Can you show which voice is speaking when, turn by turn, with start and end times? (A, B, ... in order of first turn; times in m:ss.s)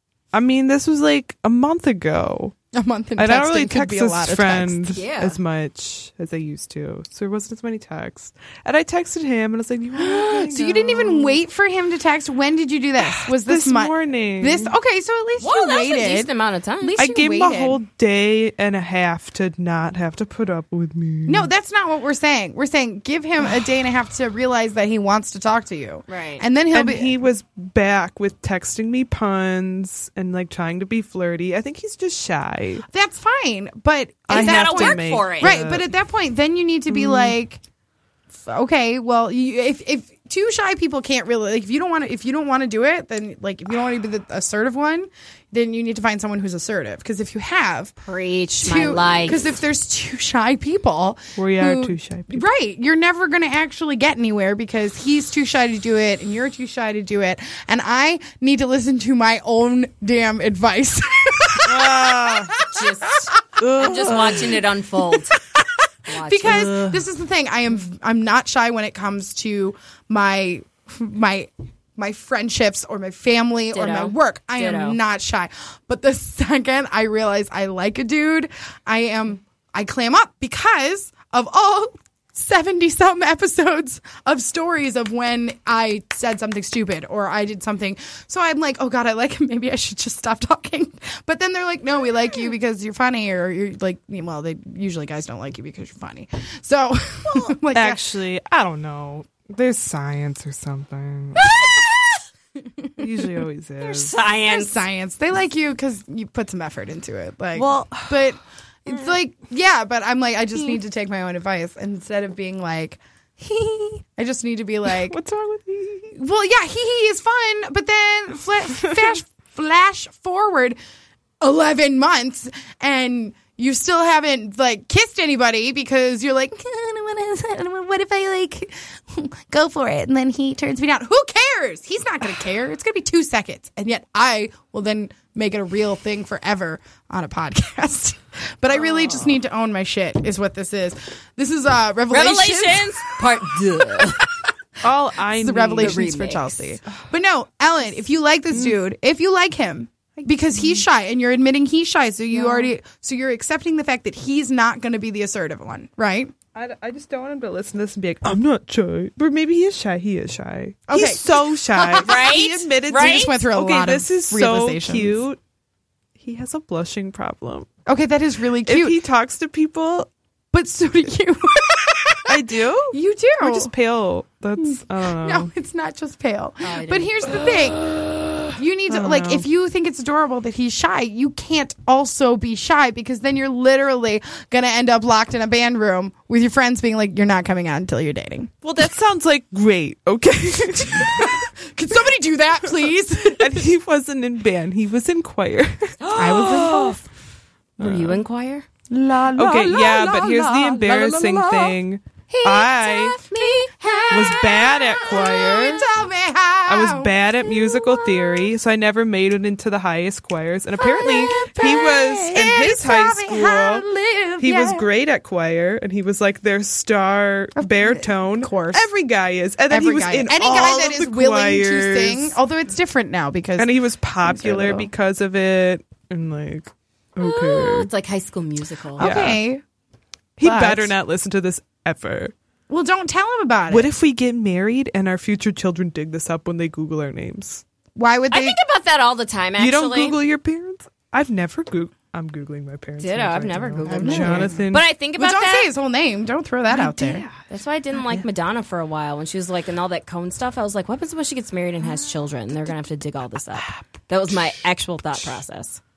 0:00.3-0:02.5 A
0:02.7-0:05.0 B
0:03.2-0:11.4 A
0:04.9-0:05.4 C
0:10.0-0:16.3 B
0:13.1-0:14.7 A
0:15.4-0:17.0 C
0:16.8-0:17.8 B
0:17.0-0:21.5 A
0:21.3-0:27.1 B
0:26.1-0:26.4 C
0:26.7-0:32.8 A
0:32.9-0:37.6 B
0:34.3-0:35.9 A
0:34.3-0:35.6 C
0:36.9-0:37.4 A
0:38.3-0:47.9 B
0:48.0-0:49.4 C
0:48.6-1:03.4 B
0:51.4-0:52.4 A
1:01.6-1:02.6 A
1:02.7-1:05.4 C
1:03.6-1:04.6 A
1:05.4-1:38.0 B
1:06.1-1:07.0 C
1:13.7-1:15.0 C
1:37.3-1:41.4 A
1:41.4-1:42.2 C
1:42.8-1:43.4 B
1:43.0-1:44.1 A
1:43.8-1:44.8 C
1:44.4-1:55.1 B
1:47.5-1:48.3 A
1:54.9-1:56.2 A
1:56.1-2:00.8 B
2:01.4-2:23.1 B
2:18.7-2:19.3 C
2:22.1-2:24.2 C
2:23.9-2:24.5 B
2:24.8-2:26.1 A
2:25.4-2:36.3 B
2:25.8-2:26.6 C
2:32.3-2:32.7 A
2:36.5-2:45.4 A
2:40.9-2:42.3 B
2:42.0-2:43.4 C
2:42.9-2:45.2 B
2:46.2-2:47.7 A
2:47.8-2:49.0 B
2:48.6-2:50.1 A
2:50.5-2:53.7 B
2:52.2-2:55.5 A
2:54.6-2:57.9 B
2:56.6-2:57.4 C
2:58.5-3:08.5 B
2:58.9-2:59.5 A
3:08.6-3:11.5 A
3:11.0-3:13.7 B
3:13.3-3:16.7 A
3:16.0-3:17.0 C
3:16.2-3:17.0 B
3:17.8-3:18.2 A
3:17.8-3:18.6 C
3:18.9-3:21.8 B
3:19.3-3:23.2 A
3:22.3-3:27.1 B
3:23.3-3:24.4 C
3:24.1-3:25.9 A
3:26.7-3:33.8 A
3:27.8-3:28.2 B
3:30.8-3:34.8 B
3:31.0-3:31.5 C
3:34.4-3:42.4 A
3:37.6-3:38.9 B
3:39.7-3:44.9 B
3:43.6-3:47.9 A
3:47.2-3:49.1 C
3:49.0-3:49.6 B
3:49.0-3:49.4 A
3:50.4-3:52.3 A
3:50.4-3:50.9 B
3:52.7-3:53.9 B
3:53.7-3:57.6 A
3:57.9-3:58.6 B
3:58.3-4:00.2 C
3:59.6-4:04.8 A
4:03.0-4:05.7 C
4:03.8-4:04.6 B
4:05.2-4:07.2 B
4:06.7-4:07.4 A
4:07.5-4:15.8 C
4:08.0-4:08.2 A